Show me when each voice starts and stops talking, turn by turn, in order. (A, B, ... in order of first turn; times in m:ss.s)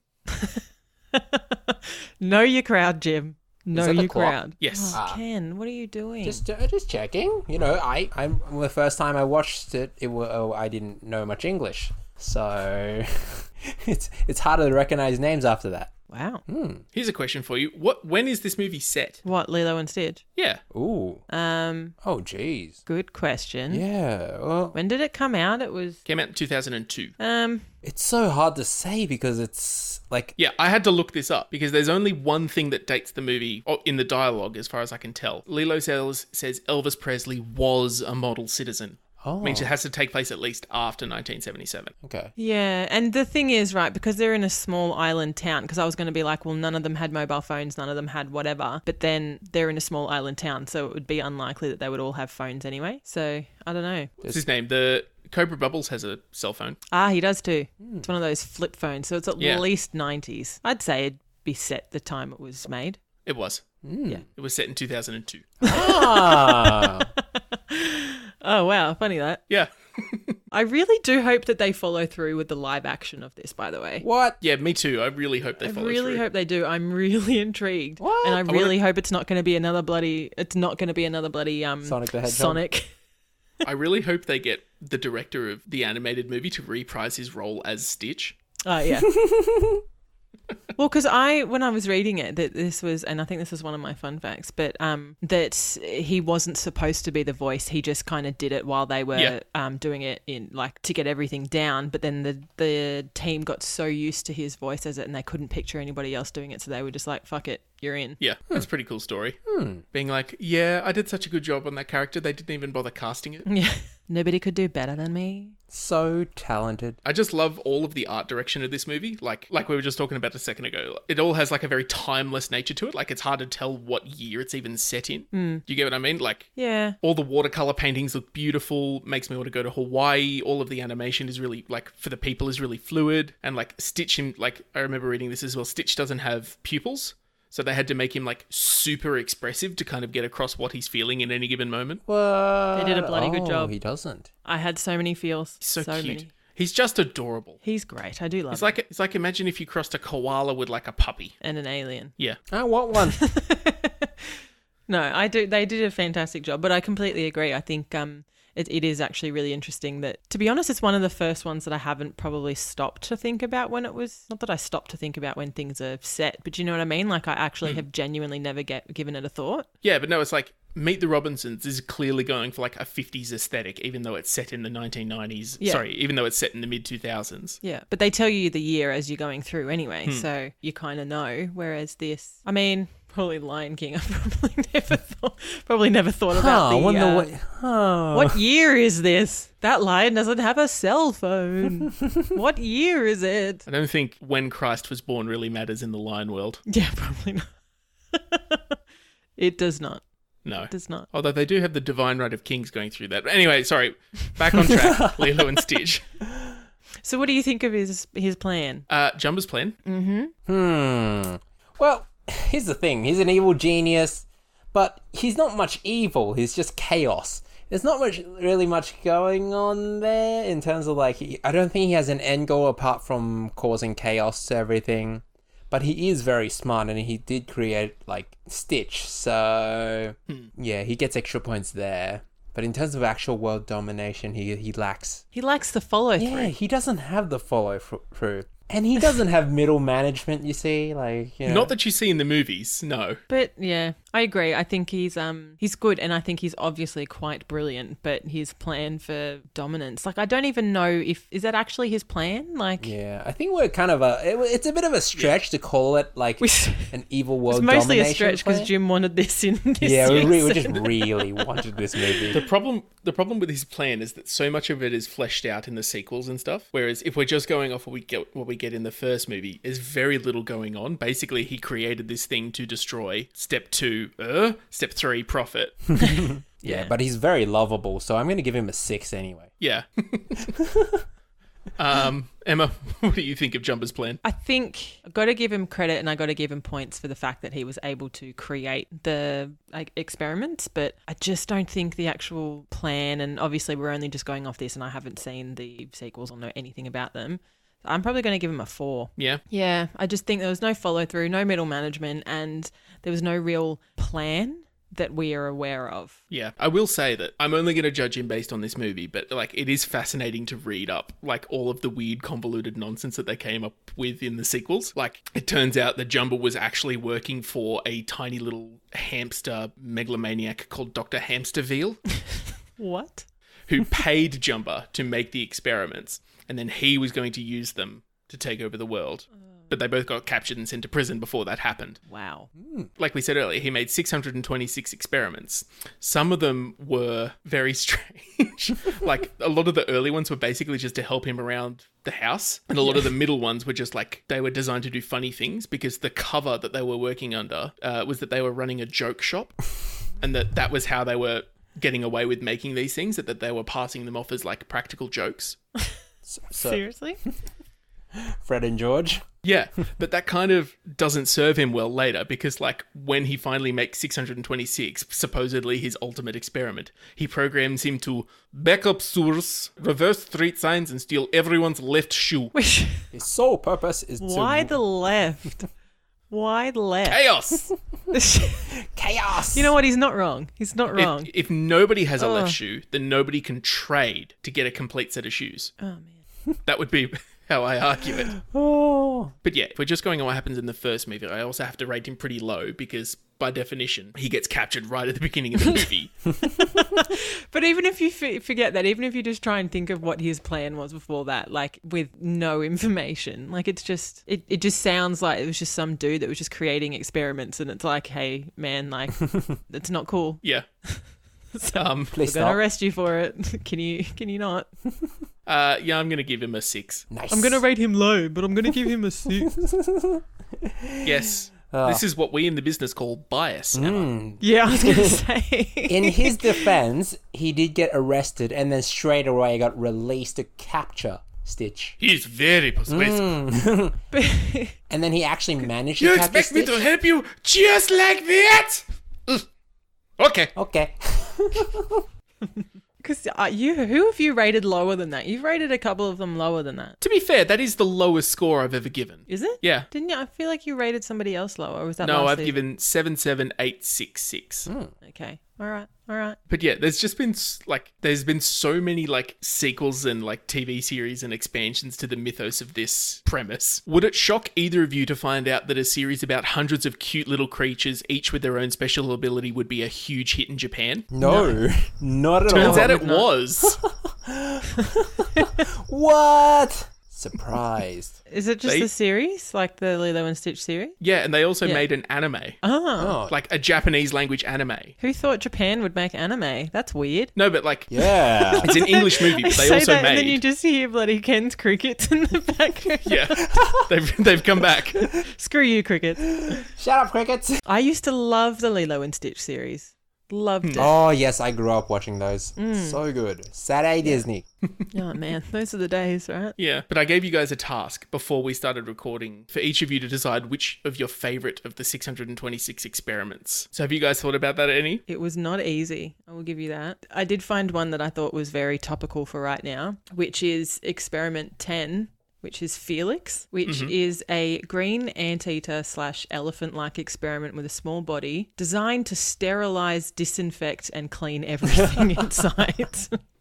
0:00.3-0:06.4 A
0:03.7-0:04.4 B
0:04.6-0:05.0 C
0:04.9-0:05.2 B
0:06.2-0:15.9 B
0:16.1-0:16.4 A
0:16.5-0:16.8 B
0:16.9-0:19.2 C
0:19.2-0:20.2 A
0:20.7-0:21.2 B
0:21.3-0:21.9 A
0:22.0-0:22.8 B
0:22.8-0:23.8 A
0:23.7-0:24.8 B
0:24.7-0:26.0 A
0:26.0-0:27.1 C
0:27.2-0:27.6 A
0:27.8-0:30.3 B
0:30.4-0:41.9 C
0:39.2-0:39.7 B
0:42.0-0:42.3 B
0:42.4-0:54.1 A
0:54.2-0:56.8 C
0:56.9-1:03.0 A
0:59.4-0:59.6 C
1:03.2-1:03.6 C
1:03.8-1:04.2 B
1:04.3-1:05.5 C
1:05.6-1:07.1 B
1:05.6-1:09.4 A
1:09.5-1:10.4 C
1:10.5-1:14.0 A
1:14.0-1:14.4 B
1:14.4-1:16.2 C
1:15.6-1:22.9 A
1:18.0-1:18.7 B
1:21.8-1:22.6 B
1:23.6-1:28.4 C
1:28.6-1:29.2 A
1:29.1-1:29.8 B
1:30.8-1:48.2 A
1:48.2-1:49.4 C
1:49.5-1:49.8 B
1:49.9-1:53.4 C
1:53.4-1:55.6 A
1:55.7-1:57.0 B
1:57.0-2:22.0 C
2:05.3-2:05.6 A
2:06.6-2:07.0 A
2:22.0-2:24.3 B
2:22.7-2:23.7 A
2:24.4-2:26.3 A
2:25.6-2:27.6 C
2:27.6-2:28.8 A
2:28.5-2:31.3 C
2:31.4-2:32.1 A
2:32.5-2:33.2 B
2:33.1-2:34.4 A
2:34.9-2:49.7 A
2:49.8-2:57.6 C
2:57.6-3:07.3 A
3:06.3-3:08.4 B
3:08.1-3:13.6 A
3:13.7-3:16.6 C
3:16.6-3:17.5 A
3:18.1-3:18.7 A
3:19.4-3:20.0 A
3:20.4-3:26.0 C
3:20.7-3:21.1 A
3:24.7-3:25.4 B
3:27.0-3:28.8 A
3:28.9-3:29.8 C
3:29.8-3:30.3 A
3:30.5-3:55.2 B
3:55.3-3:56.5 A
3:56.2-4:01.7 B
4:01.4-4:03.2 C
4:03.3-4:12.9 A
4:12.8-4:18.7 B
4:16.4-4:16.9 A
4:17.5-4:22.4 A
4:19.8-4:22.4 B
4:20.0-4:20.3 C
4:22.3-4:36.0 C
4:36.0-4:39.5 B
4:36.0-4:36.9 A
4:39.6-4:40.5 C
4:40.5-4:41.0 B
4:41.8-4:44.2 C
4:44.2-5:06.2 A
5:06.3-5:22.0 C
5:22.8-5:23.2 A
5:23.7-5:32.0 C
5:32.1-5:32.5 A
5:32.6-5:32.9 B
5:33.0-5:49.7 C
5:50.2-5:55.6 C
5:56.2-5:56.8 B
5:56.6-5:57.2 A
5:58.1-5:59.2 B
5:59.4-6:12.5 C
6:12.5-6:13.1 A
6:13.1-6:14.8 B
6:14.2-6:15.7 A
6:16.3-6:17.2 A
6:17.1-6:17.6 C
6:18.1-6:18.8 A
6:18.8-6:19.7 B
6:19.5-6:21.3 A
6:20.9-6:25.7 C
6:22.2-6:22.6 A
6:25.8-6:26.2 A
6:26.6-6:28.4 C
6:28.4-6:29.3 B
6:29.4-6:36.3 C
6:36.6-6:54.7 A
6:51.7-6:52.2 C
6:52.1-6:52.6 B
6:55.4-6:57.0 C
6:57.1-6:57.6 B
6:57.3-6:59.5 A
6:59.4-7:02.0 B
7:01.0-7:04.1 C
7:03.7-7:05.2 B
7:04.4-7:06.7 A
7:05.9-7:12.0 B
7:12.0-7:13.3 C
7:12.9-7:14.0 B
7:14.1-7:14.8 A
7:14.9-7:16.9 B
7:16.0-7:19.4 C
7:20.2-7:20.5 C
7:20.5-7:22.0 B
7:23.0-7:27.0 A
7:27.0-7:29.9 C
7:29.3-7:32.6 A
7:32.0-7:34.7 C
7:34.7-7:34.9 B
7:35.0-7:36.4 A
7:36.5-7:51.1 C
7:51.1-7:53.0 B
7:51.2-7:51.6 A
7:52.5-7:53.8 C
7:52.5-7:53.3 A
7:53.6-7:58.2 B
7:58.3-8:00.9 A
8:01.0-8:02.6 C
8:02.6-8:03.2 A
8:03.0-8:03.3 B
8:03.2-8:04.9 C
8:05.0-8:07.3 A
8:07.3-8:10.4 C
8:07.9-8:08.7 B
8:08.5-8:13.4 A
8:13.0-8:15.1 C
8:13.4-8:13.9 B
8:15.0-8:16.6 A
8:16.3-8:17.6 B
8:17.6-8:21.0 A
8:20.8-8:24.4 B
8:22.6-8:23.0 A
8:24.9-8:26.5 A
8:26.6-8:35.0 C
8:35.1-8:53.2 A
8:43.6-8:43.9 C